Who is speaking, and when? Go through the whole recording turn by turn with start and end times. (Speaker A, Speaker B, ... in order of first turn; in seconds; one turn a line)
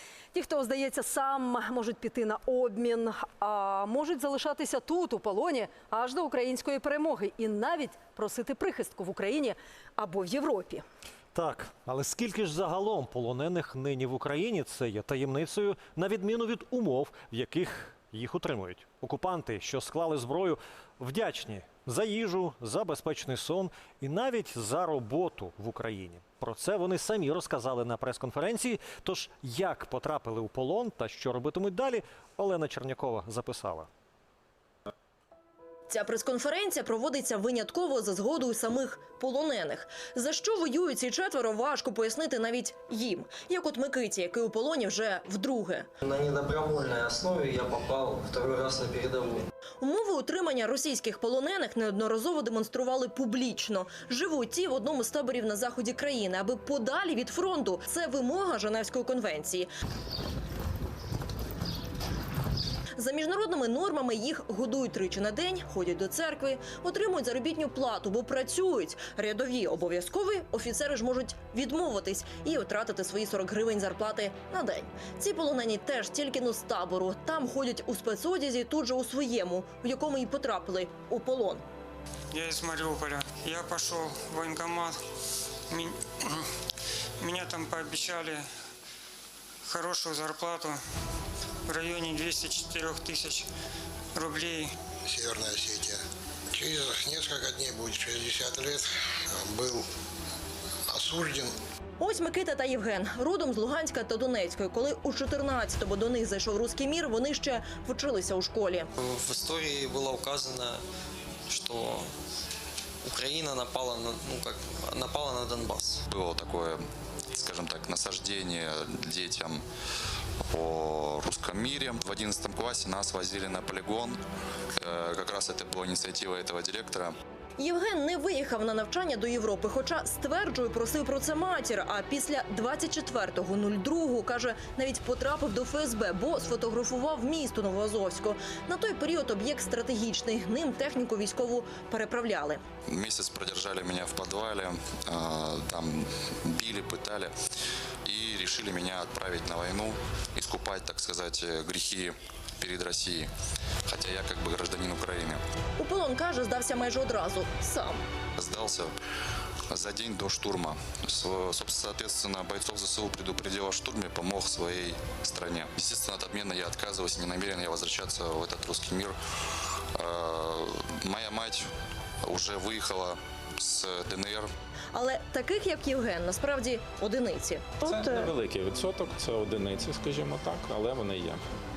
Speaker A: 0.3-10.8
Speaker B: 11.3-33.9
Speaker C: 35.9-45.9
Speaker D: 46.0-49.5
Speaker C: 49.8-59.7
Speaker C: 63.0-81.6
Speaker E: 82.3-85.0
Speaker E: 85.7-86.5
Speaker E: 87.2-88.5
Speaker E: 89.7-90.8
Speaker E: 91.7-93.5
Speaker E: 94.2-94.7
Speaker F: 95.1-96.0
Speaker F: 96.5-99.9
Speaker F: 100.9-101.5
Speaker C: 102.0-108.9
Speaker D: 109.0-110.8
Speaker D: 111.5-112.1
Speaker D: 113.0-116.0
Speaker G: 116.1-116.8
Speaker G: 117.3-119.6
Speaker G: 120.5-124.2
Speaker G: 124.8-127.1
Speaker C: 127.6-142.6
Speaker G: 142.9-147.3
Speaker G: 148.1-153.3
Speaker G: 153.9-155.4
Speaker C: 155.8-158.0
Speaker G: 158.4-158.9
Speaker G: 159.7-169.2
Speaker G: 170.0-171.7
Speaker G: 172.3-174.5
Speaker C: 174.9-177.8
Speaker H: 177.8-181.4